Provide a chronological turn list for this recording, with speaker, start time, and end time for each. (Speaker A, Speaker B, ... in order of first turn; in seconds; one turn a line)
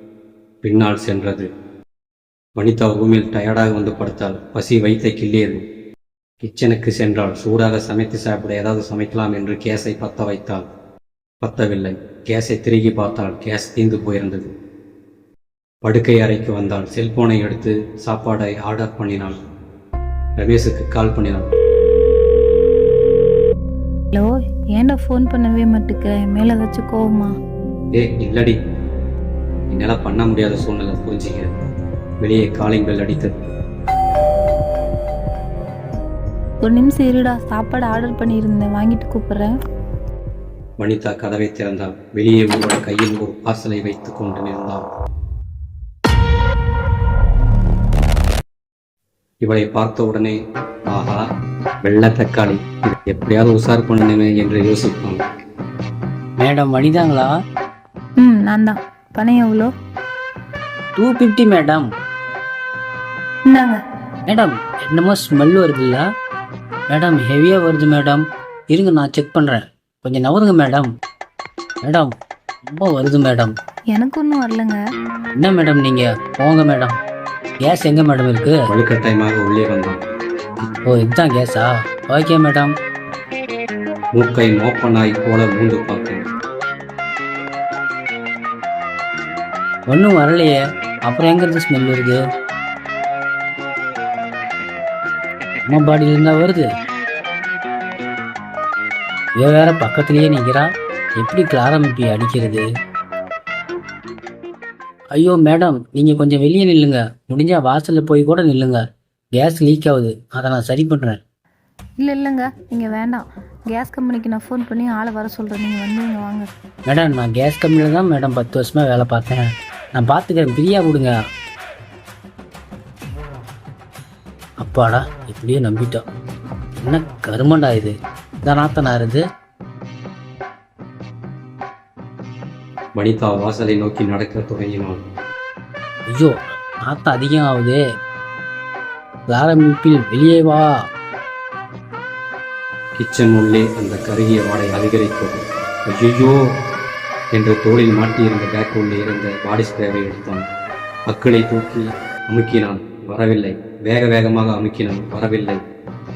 Speaker A: 0.6-1.5
Speaker A: 2.6-5.6
Speaker A: 6.4-10.7
Speaker A: 11.4-14.5
Speaker A: 15.8-19.4
Speaker A: 20.4-21.5
Speaker B: 24.1-27.3
Speaker A: 27.9-28.6
Speaker A: 29.7-31.5
Speaker A: 32.2-33.4
Speaker B: 36.6-39.5
Speaker A: 40.8-44.9
Speaker A: 49.4-50.4
Speaker A: 50.9-51.2
Speaker A: 51.8-55.2
Speaker C: 56.4-57.3
Speaker B: 58.2-59.7
Speaker C: 61.0-61.9
Speaker B: 63.5-63.8
Speaker C: 64.3-66.1
Speaker C: 66.9-70.9
Speaker C: 71.8-72.1
Speaker C: 72.7-73.6
Speaker B: 73.9-74.8
Speaker C: 75.4-77.0
Speaker C: 77.6-78.6
Speaker A: 78.7-80.0
Speaker C: 80.9-82.7
Speaker A: 84.1-86.3
Speaker C: 89.9-92.2
Speaker C: 95.7-96.7
Speaker C: 99.4-102.7
Speaker C: 105.1-108.8
Speaker C: 109.4-111.2
Speaker B: 112.0-116.5
Speaker C: 116.9-121.1
Speaker C: 124.6-126.0
Speaker C: 126.8-127.9
Speaker C: 128.4-129.2
Speaker A: 132.9-135.1
Speaker C: 136.9-137.8
Speaker C: 139.3-140.7
Speaker A: 143.0-146.4
Speaker A: 147.3-150.5
Speaker A: 151.1-155.7